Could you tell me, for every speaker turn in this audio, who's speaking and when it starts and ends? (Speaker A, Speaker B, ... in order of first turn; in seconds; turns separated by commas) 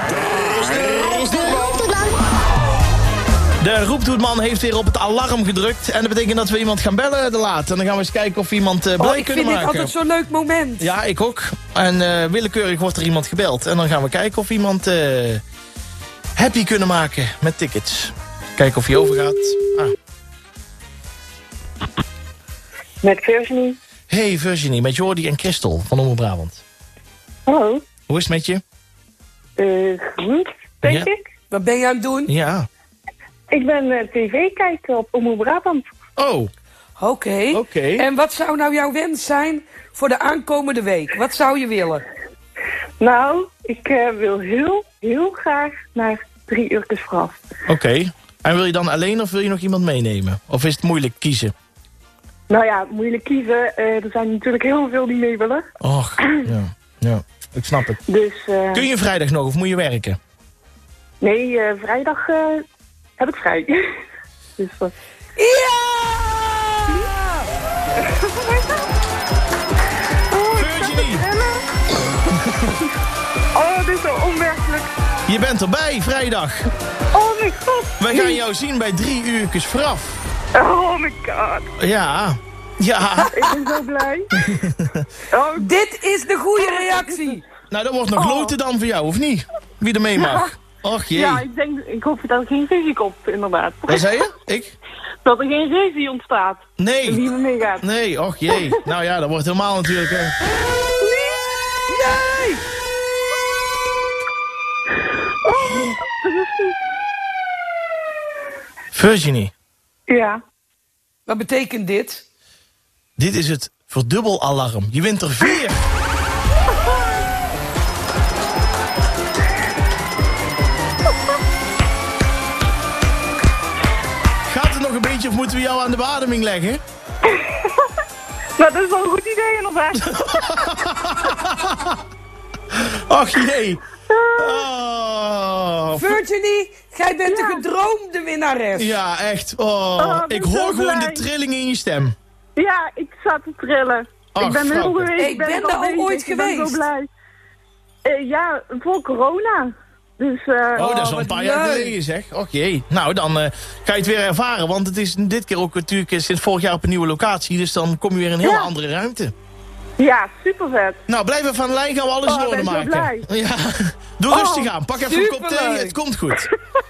Speaker A: 0.5-2.0, Speaker A: 3.6-9.9, Speaker B: 9.0-10.9, Speaker A: 10.8-15.4, Speaker A: 16.4-19.9, Speaker C: 23.0-23.8, Speaker A: 24.1-26.6, Speaker C: 27.5-27.8, Speaker A: 28.1-28.6, Speaker C: 29.6-31.3, Speaker A: 30.9-31.1, Speaker B: 31.5-32.3, Speaker A: 32.3-32.7, Speaker C: 33.5-35.9, Speaker A: 36.2-36.5, Speaker B: 37.0-42.0, Speaker A: 37.5-38.1, Speaker C: 43.0-47.4, Speaker A: 47.7-51.5, Speaker C: 52.5-55.7, Speaker A: 55.8-58.0, Speaker C: 58.1-58.9, Speaker A: 58.7-60.2, Speaker C: 61.2-62.7, Speaker C: 63.2-63.8, Speaker C: 64.6-64.9, Speaker B: 65.4-67.4, Speaker C: 68.0-68.8, Speaker C: 70.3-71.6, Speaker A: 70.5-71.2, Speaker C: 73.5-74.9, Speaker A: 75.3-76.7, Speaker C: 77.1-78.3, Speaker A: 78.0-80.2, Speaker C: 80.5-81.7, Speaker A: 81.8-83.6, Speaker C: 83.3-84.4, Speaker A: 84.3-85.0, Speaker C: 85.3-85.7, Speaker B: 85.6-87.4, Speaker C: 86.6-87.3, Speaker A: 87.7-91.4, Speaker C: 88.2-88.5, Speaker C: 90.2-90.5, Speaker C: 91.1-94.1, Speaker A: 93.9-94.8, Speaker C: 95.2-97.8, Speaker A: 96.8-97.2, Speaker A: 97.8-100.3, Speaker C: 101.0-101.4, Speaker B: 101.9-102.6, Speaker C: 105.5-106.8, Speaker A: 108.9-109.5, Speaker C: 110.1-110.4, Speaker B: 111.3-112.2, Speaker A: 113.2-115.8, Speaker A: 124.5-126.8, Speaker C: 127.3-127.8, Speaker C: 128.6-130.6, Speaker A: 130.0-132.0, Speaker A: 132.7-133.8, Speaker C: 134.1-134.7, Speaker A: 134.4-136.2, Speaker B: 135.9-139.0, Speaker C: 137.3-137.6, Speaker A: 138.8-142.2, Speaker C: 140.0-141.3, Speaker C: 142.6-147.1, Speaker A: 144.3-145.1, Speaker B: 145.2-146.8, Speaker C: 148.1-150.9, Speaker B: 150.8-152.0, Speaker A: 150.8-159.3, Speaker C: 158.4-158.7, Speaker C: 160.0-161.0, Speaker A: 161.1-166.5, Speaker C: 162.2-163.2, Speaker C: 164.3-164.7, Speaker B: 165.1-166.0